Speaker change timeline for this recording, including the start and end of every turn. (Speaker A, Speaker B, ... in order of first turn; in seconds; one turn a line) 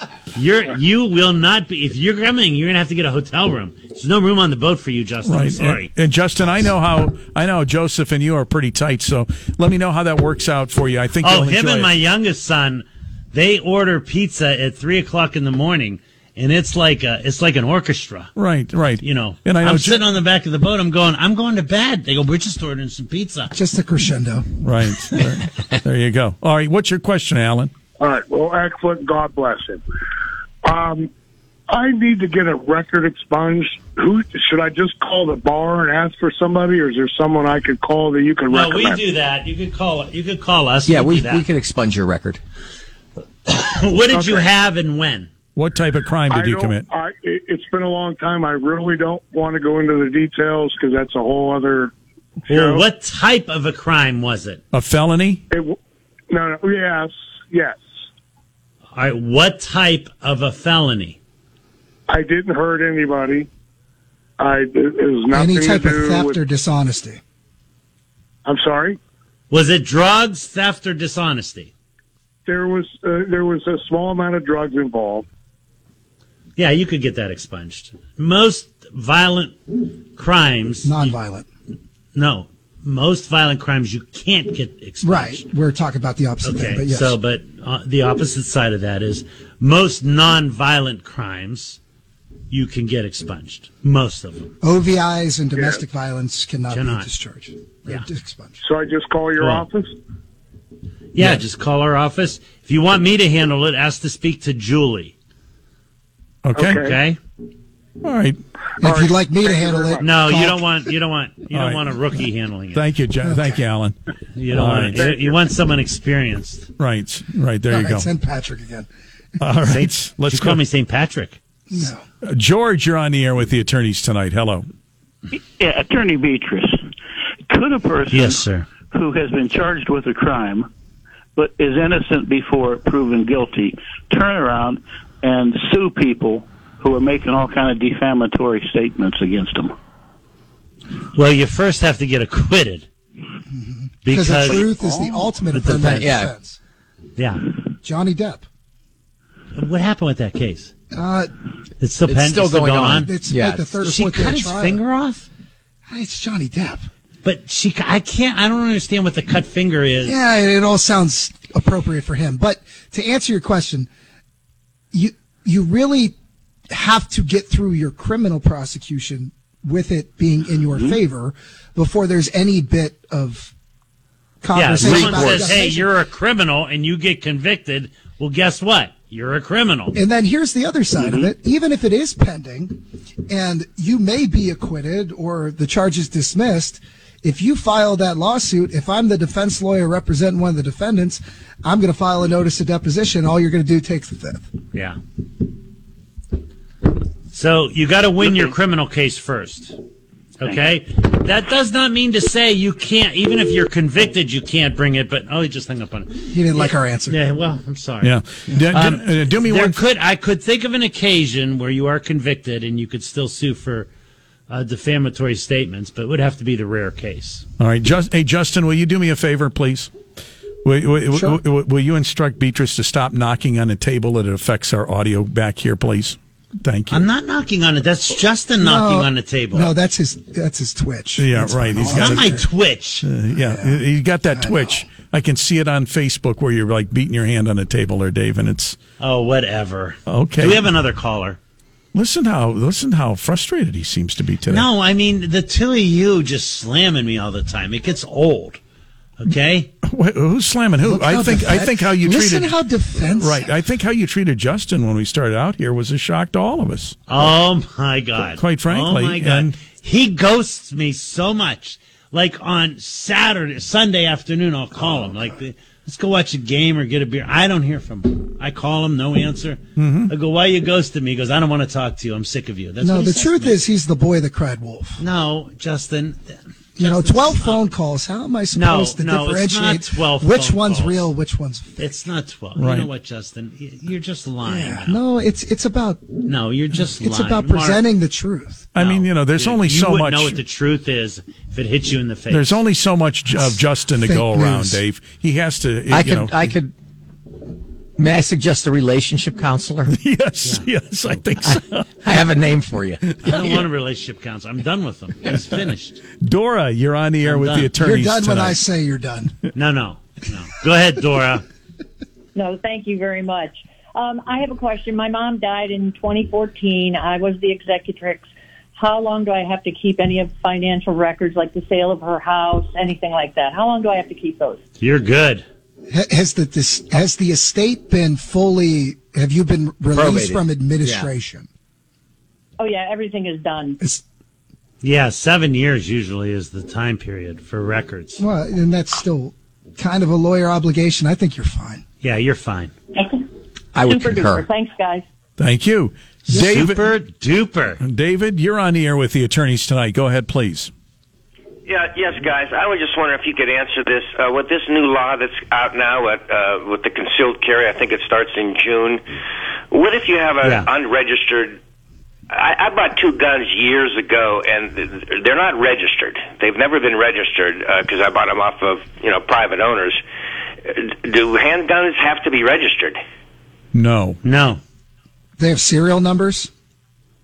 Speaker A: 0.3-5.9
Speaker B: 5.2-11.9
Speaker A: 11.2-18.3
Speaker B: 18.4-20.0
Speaker A: 19.0-23.5
Speaker C: 23.5-24.5
Speaker B: 24.6-27.7
Speaker D: 28.0-29.8
Speaker D: 30.6-31.1
Speaker D: 31.7-39.0
Speaker A: 38.5-41.4
Speaker E: 40.9-42.4
Speaker A: 43.5-45.3
Speaker D: 44.1-44.5
Speaker B: 45.5-46.9
Speaker D: 46.3-51.9
Speaker D: 52.5-52.9
Speaker A: 52.5-54.6
Speaker B: 54.7-55.4
Speaker D: 55.5-55.8
Speaker D: 56.3-57.8
Speaker A: 58.9-61.2
Speaker D: 62.1-63.5
Speaker D: 64.4-66.4
Speaker C: 65.3-67.2
Speaker D: 68.4-69.0
Speaker A: 69.5-71.7
Speaker D: 72.5-75.2
Speaker A: 76.6-79.6
Speaker A: 80.1-81.1
Speaker C: 80.8-81.5
Speaker A: 82.1-85.4
Speaker C: 85.0-87.2
Speaker A: 86.4-91.8
Speaker A: 92.5-94.5
Speaker C: 94.6-98.6
Speaker D: 95.5-95.8
Speaker A: 96.7-97.1
Speaker D: 98.6-99.9
Speaker A: 99.4-99.7
Speaker A: 101.1-105.1
Speaker B: 106.4-106.9
Speaker D: 106.5-107.0
Speaker A: 106.7-107.2
Speaker B: 108.0-108.4
Speaker C: 108.8-110.7
Speaker D: 108.8-110.2
Speaker A: 110.0-112.8
Speaker B: 111.5-111.8
Speaker B: 112.7-113.9
Speaker C: 113.2-113.6
Speaker A: 114.3-116.7
Speaker B: 114.5-115.1
Speaker B: 116.8-118.1
Speaker C: 117.7-118.9
Speaker B: 119.4-120.6
Speaker A: 119.7-121.4
Speaker C: 121.7-122.0
Speaker B: 122.2-124.7
Speaker F: 125.5-126.8
Speaker F: 127.5-130.7
Speaker A: 128.1-128.7
Speaker F: 131.3-139.7
Speaker A: 141.1-142.9
Speaker C: 143.5-146.6
Speaker A: 144.0-146.1
Speaker E: 145.7-146.3
Speaker A: 147.2-147.4
Speaker C: 147.8-148.4
Speaker A: 149.5-150.7
Speaker C: 150.9-151.3
Speaker A: 151.8-153.1
Speaker E: 152.0-153.7
Speaker C: 153.0-154.8
Speaker A: 153.8-155.3
Speaker C: 155.9-156.9
Speaker A: 157.2-160.2
Speaker C: 160.0-163.9
Speaker C: 164.9-166.1
Speaker C: 166.7-173.5
Speaker C: 174.4-175.9
Speaker A: 174.5-180.0
Speaker C: 179.9-194.5
Speaker A: 197.3-199.8
Speaker A: 200.4-208.1
Speaker C: 206.3-207.2
Speaker B: 208.0-209.8
Speaker A: 208.7-213.9
Speaker A: 214.5-217.4
Speaker B: 217.6-219.9
Speaker B: 220.6-227.0
Speaker C: 221.1-221.4
Speaker A: 226.9-229.7
Speaker C: 228.6-232.4
Speaker B: 231.2-232.4
Speaker A: 231.8-233.1
Speaker B: 233.0-238.8
Speaker C: 233.4-234.8
Speaker A: 239.0-241.4
Speaker B: 240.1-240.7
Speaker B: 241.9-244.7
Speaker A: 244.5-248.6
Speaker A: 249.2-249.7
Speaker B: 249.8-252.5
Speaker C: 250.8-253.5
Speaker B: 253.2-257.0
Speaker A: 257.1-273.6
Speaker B: 258.4-259.6
Speaker B: 269.8-270.1
Speaker C: 272.8-275.0
Speaker A: 275.0-277.6
Speaker C: 276.8-281.9
Speaker A: 278.5-281.1
Speaker A: 281.8-285.0
Speaker B: 282.6-282.9
Speaker C: 284.4-286.1
Speaker A: 286.2-287.8
Speaker C: 286.8-288.7
Speaker B: 288.7-290.4
Speaker A: 288.8-292.6
Speaker B: 292.3-296.5
Speaker C: 293.3-294.8
Speaker E: 295.9-296.7
Speaker E: 298.0-299.9
Speaker B: 299.9-301.9
Speaker E: 301.4-303.4
Speaker A: 303.2-306.0
Speaker B: 303.3-303.5
Speaker B: 306.2-308.6
Speaker A: 307.2-307.7
Speaker C: 307.8-309.4
Speaker A: 309.5-311.4
Speaker G: 312.4-324.6
Speaker A: 324.8-325.4
Speaker C: 325.9-331.5
Speaker E: 329.9-331.1
Speaker G: 332.6-333.8
Speaker A: 334.8-338.2
Speaker C: 338.2-341.8
Speaker A: 342.0-342.7
Speaker E: 343.7-344.5
Speaker G: 343.9-345.0
Speaker B: 345.4-346.8
Speaker A: 346.3-347.8
Speaker B: 347.8-350.7
Speaker H: 351.6-359.0
Speaker H: 359.7-361.6
Speaker A: 360.4-360.7
Speaker H: 362.3-370.0
Speaker H: 370.6-373.0
Speaker B: 373.7-374.2
Speaker A: 374.2-374.6
Speaker C: 375.4-376.5